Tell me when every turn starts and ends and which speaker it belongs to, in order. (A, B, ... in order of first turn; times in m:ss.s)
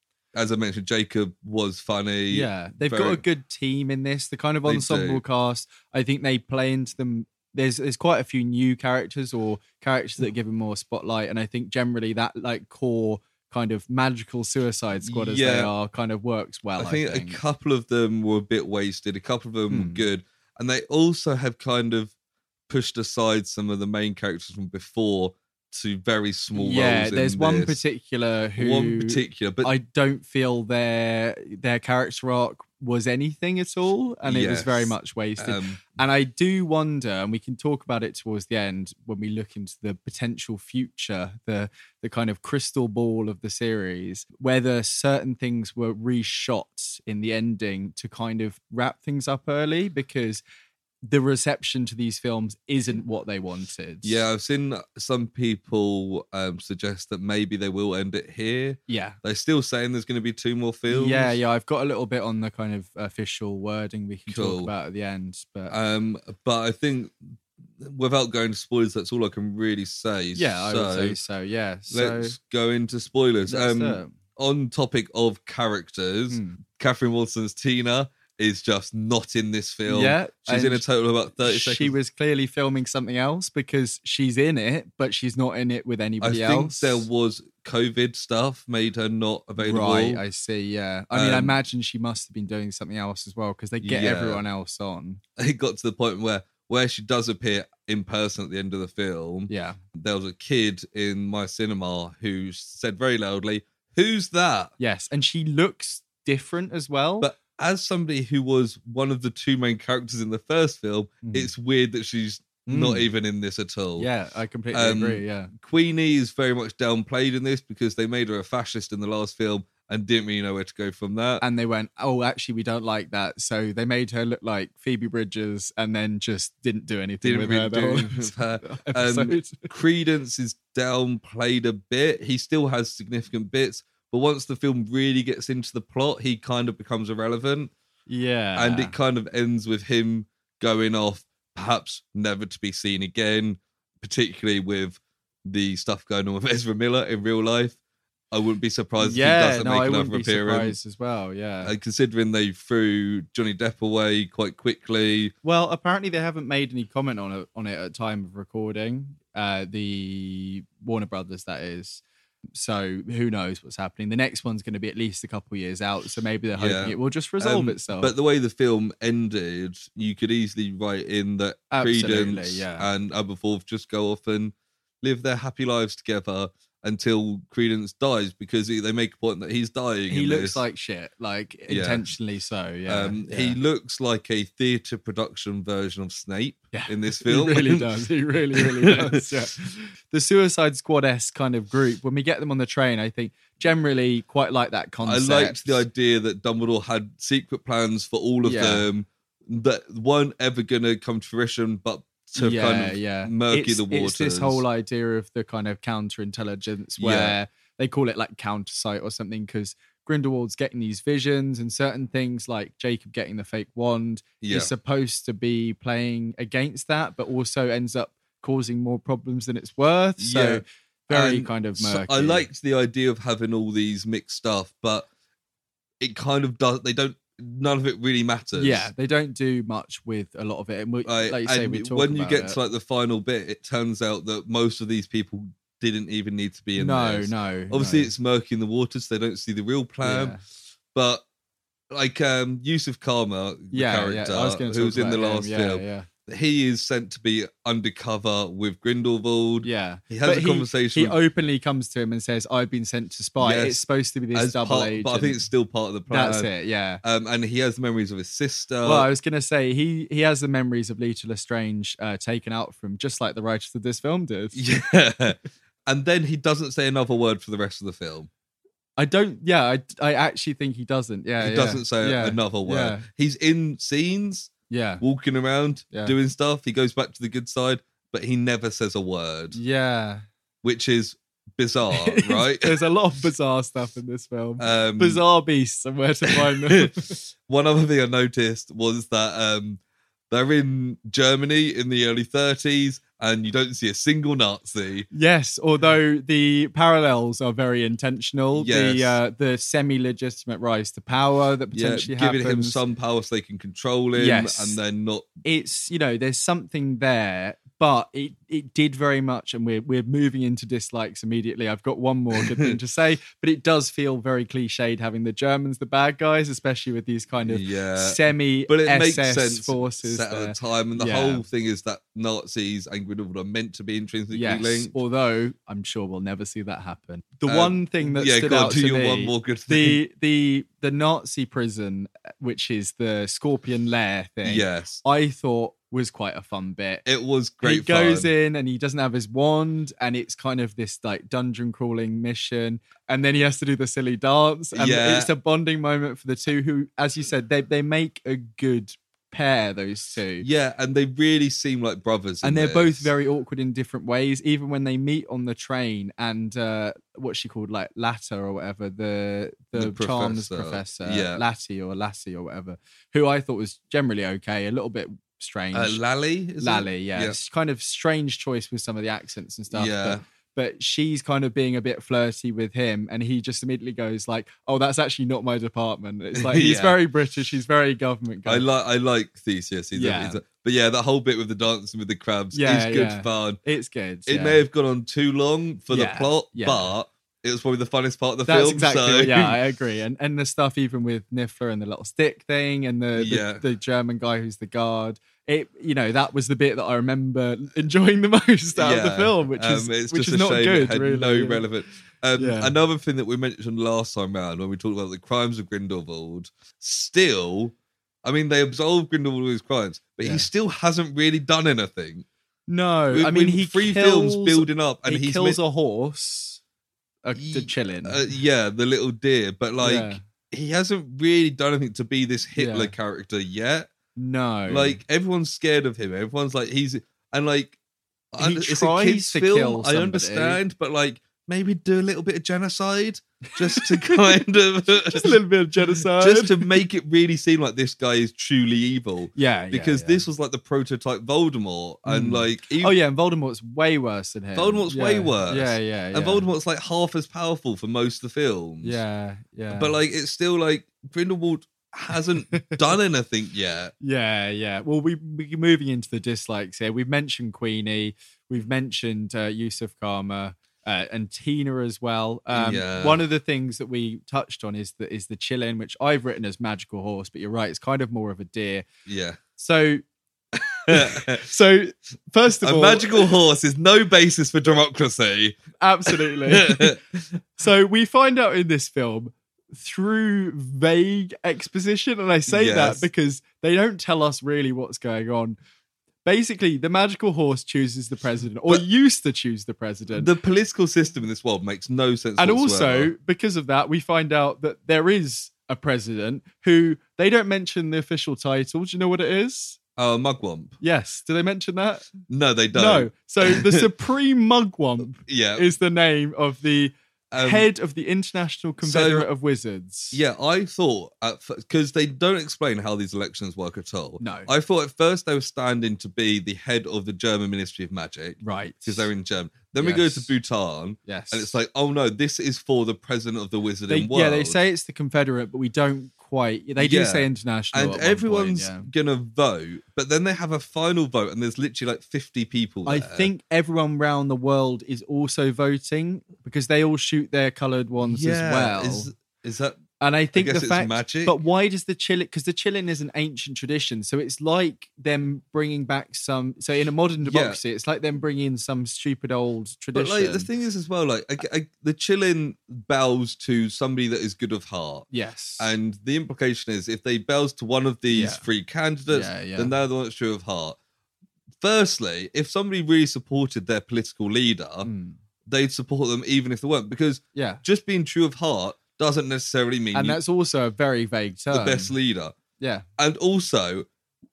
0:00.3-0:03.2 A
0:02.3-0:17.4 B
0:04.7-0:05.2 A
0:15.0-0:15.7 A
0:16.8-0:22.1 A
0:19.7-0:20.0 B
0:22.7-0:27.8 A
0:26.5-0:50.4 B
0:28.6-0:29.7 A
0:34.3-0:35.8 A
0:51.0-0:54.2 B
0:54.0-1:01.4 A
0:58.9-0:59.2 B
1:00.9-1:05.8 B
1:04.3-1:04.7 A
1:05.7-1:11.2 A
1:10.4-1:12.4 B
1:11.9-1:21.9 A
1:13.5-1:14.2 B
1:16.3-1:16.6 B
1:19.9-1:20.8 B
1:21.4-1:27.1 B
1:26.2-1:30.2 A
1:29.6-1:35.2 B
1:31.1-1:31.6 A
1:33.8-1:34.4 A
1:35.4-1:44.7 A
1:39.5-1:39.8 B
1:44.8-1:47.3 B
1:47.2-1:54.1 A
1:51.2-1:51.5 B
1:52.7-1:53.1 B
1:54.0-1:55.5 B
1:54.7-2:01.4 A
2:01.4-2:09.7 B
2:07.2-2:17.7 A
2:18.1-2:19.0 B
2:18.6-2:27.8 A
2:28.3-2:30.8 A
2:29.0-2:31.7 B
2:31.6-2:35.3 A
2:35.4-2:42.0 B
2:42.5-2:48.1 B
2:46.6-3:00.6 A
2:51.7-2:52.9 B
3:00.1-3:03.6 B
3:01.7-3:02.1 A
3:02.9-3:07.9 A
3:06.7-3:15.8 B
3:08.5-3:09.2 A
3:15.0-3:24.6 A
3:18.4-3:18.9 B
3:22.4-3:42.5 B
3:27.0-3:27.4 A
3:34.4-3:34.7 A
3:40.2-3:45.1 A
3:46.0-3:48.9 A
3:48.6-3:52.6 B
3:51.0-4:00.4 A
3:56.8-3:58.1 B
4:00.0-4:00.4 B
4:00.9-4:01.2 A
4:01.9-4:11.2 A
4:03.7-4:06.1 B
4:09.6-4:15.4 B
4:13.4-4:16.5 A
4:16.1-4:17.0 B
4:17.0-4:19.1 A
4:18.8-4:24.6 B
4:24.5-4:28.3 A
4:29.0-4:33.0 B
4:31.4-4:39.6 A
4:34.7-4:35.0 B
4:39.5-4:40.2 B
4:40.6-4:42.8 A
4:41.9-4:47.2 B
4:44.6-4:45.2 A
4:46.5-4:55.1 A
4:55.1-5:02.8 B
4:58.5-4:59.2 A
5:01.7-5:05.3 A
5:04.2-5:04.8 B
5:05.4-5:21.4 B
5:12.4-5:12.8 A
5:17.5-5:25.0 A
5:24.3-5:37.0 B
5:27.5-5:30.0 A
5:34.4-5:35.0 A
5:37.0-5:38.3 A
5:37.6-5:50.5 B
5:44.7-5:45.3 A
5:50.4-5:53.1 A
5:52.4-6:06.0 B
5:59.8-6:01.4 A
6:05.7-6:07.4 A
6:06.6-6:18.7 B
6:09.7-6:10.2 A
6:16.4-6:17.0 A
6:18.5-6:23.6 A
6:19.9-6:20.4 B
6:22.5-6:24.6 B
6:24.3-6:29.6 A
6:25.9-6:26.9 B
6:28.5-6:41.6 B
6:33.2-6:33.6 A
6:38.8-6:52.2 A
6:42.4-6:42.7 B
6:50.2-6:50.5 B
6:52.7-6:56.6 B
6:53.1-6:55.6 A
6:57.2-6:58.2 B
6:57.4-7:03.9 A
6:59.8-7:00.2 B
7:02.6-7:02.9 B
7:04.2-7:05.0 B
7:04.7-7:07.8 A
7:08.3-7:15.4 A
7:08.4-7:10.6 B
7:13.6-7:14.2 B
7:15.0-7:16.8 B
7:16.0-7:23.0 A
7:19.4-7:20.2 B
7:22.1-7:26.5 B
7:24.6-7:29.0 A
7:28.8-7:30.0 B
7:29.7-7:33.9 A
7:34.0-7:48.8 B
7:42.5-7:43.2 A
7:49.1-7:49.4 A
7:49.6-7:50.0 B
7:50.6-7:51.4 A
7:50.9-7:53.3 B
7:52.6-7:57.4 A
7:55.8-7:57.0 B
7:57.6-8:05.6 B
8:02.5-8:03.1 A
8:06.2-8:10.3 B
8:10.1-8:13.1 A
8:12.4-8:19.8 B
8:20.0-8:20.8 A
8:20.8-8:22.2 B
8:22.3-8:23.9 A
8:22.7-8:30.2 B
8:25.3-8:25.7 A
8:27.3-8:27.7 A
8:28.8-8:29.3 A
8:30.1-8:44.6 A
8:34.2-8:34.5 B
8:38.4-8:39.1 B
8:39.8-8:40.3 B
8:41.0-8:41.6 B
8:43.9-8:48.9 B
8:46.8-8:53.3 A
8:52.8-8:59.1 B
8:58.0-8:59.8 A
9:00.0-9:10.5 B
9:00.3-9:01.4 A
9:07.2-9:07.6 A
9:09.9-9:15.1 A
9:15.1-9:15.7 B
9:15.6-9:20.8 A
9:18.1-9:18.4 B
9:19.1-9:19.7 B
9:21.6-9:24.9 A
9:24.8-9:25.2 B
9:25.5-9:30.2 A
9:27.4-9:27.6 B
9:29.9-9:31.9 B
9:31.5-9:32.4 A
9:32.6-9:32.8 B
9:33.0-9:33.9 A